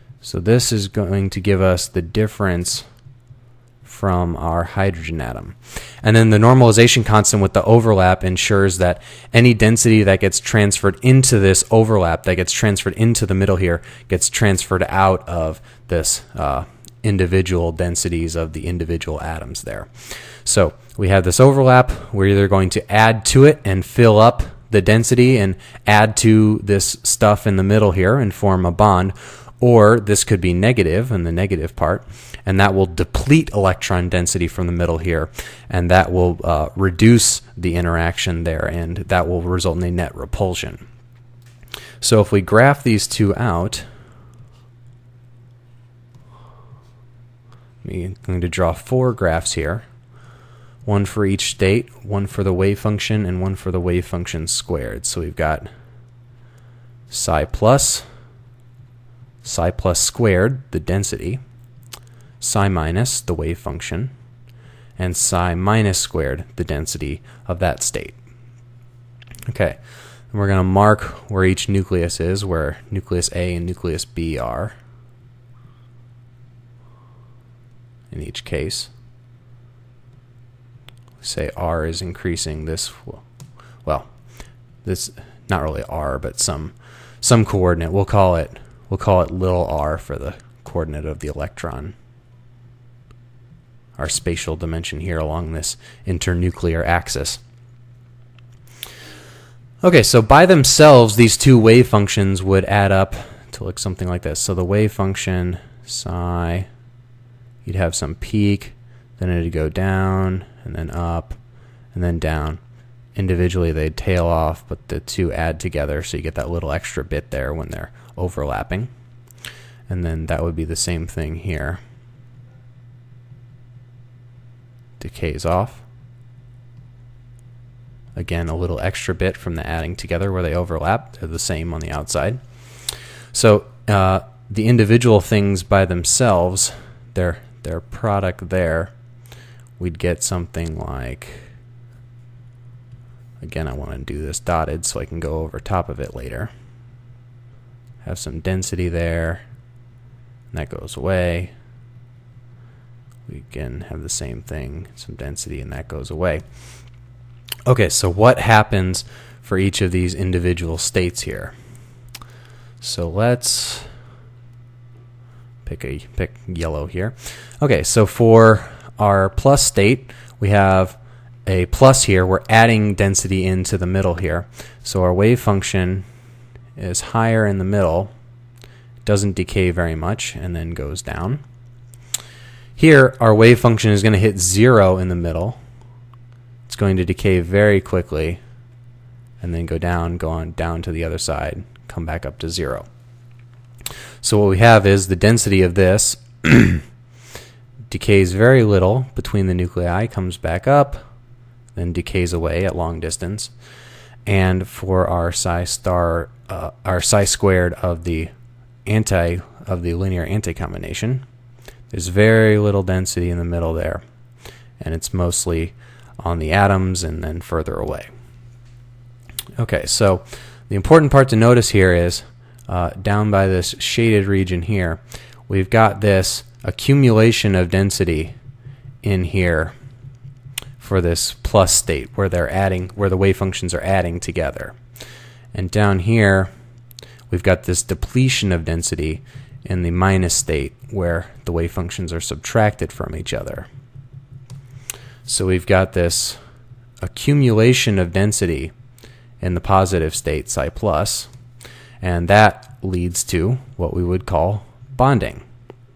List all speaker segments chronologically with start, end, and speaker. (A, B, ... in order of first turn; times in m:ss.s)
0:00.2-0:02.8 A
0:03.8-0:19.9 A
0:20.4-0:40.8 A
0:42.0-0:43.8 A
0:47.8-0:49.8 A
0:50.8-0:55.7 A
0:57.1-0:58.0 A
0:59.4-1:01.4 A
1:02.4-1:04.1 A
1:05.0-1:08.2 A
1:09.4-1:09.8 A
1:10.3-1:14.7 A
1:18.1-1:18.9 A
1:21.2-1:23.2 A
1:24.8-1:31.9 A
1:34.0-1:37.4 A
1:39.8-1:46.7 A
1:47.6-1:51.4 A
1:51.9-1:52.6 A
1:53.1-1:58.9 A
1:59.9-2:01.8 A
2:05.0-2:05.8 A
2:08.1-2:12.4 A
2:13.3-2:18.9 A
2:19.8-2:21.4 A
2:23.4-2:26.5 A
2:28.0-2:29.4 A
2:30.5-2:31.5 A
2:33.3-2:36.4 A
2:37.6-2:41.5 A
2:42.8-2:43.8 A
2:45.6-2:56.0 A
2:56.8-2:58.1 A
2:59.0-3:01.4 A
3:02.8-3:05.6 A
3:06.7-3:08.4 A
3:09.4-3:12.8 A
3:14.2-3:16.8 A
3:17.9-3:21.0 A
3:21.7-3:23.5 A
3:24.2-3:28.3 A
3:28.8-3:31.2 A
3:31.9-3:34.0 A
3:34.8-3:38.1 A
3:39.6-3:48.3 A
3:49.0-3:49.7 A
3:50.8-3:54.8 A
3:55.5-3:56.5 A
3:57.3-4:03.7 A
4:05.2-4:06.4 A
4:07.0-4:08.7 A
4:09.4-4:11.3 A
4:12.0-4:15.4 A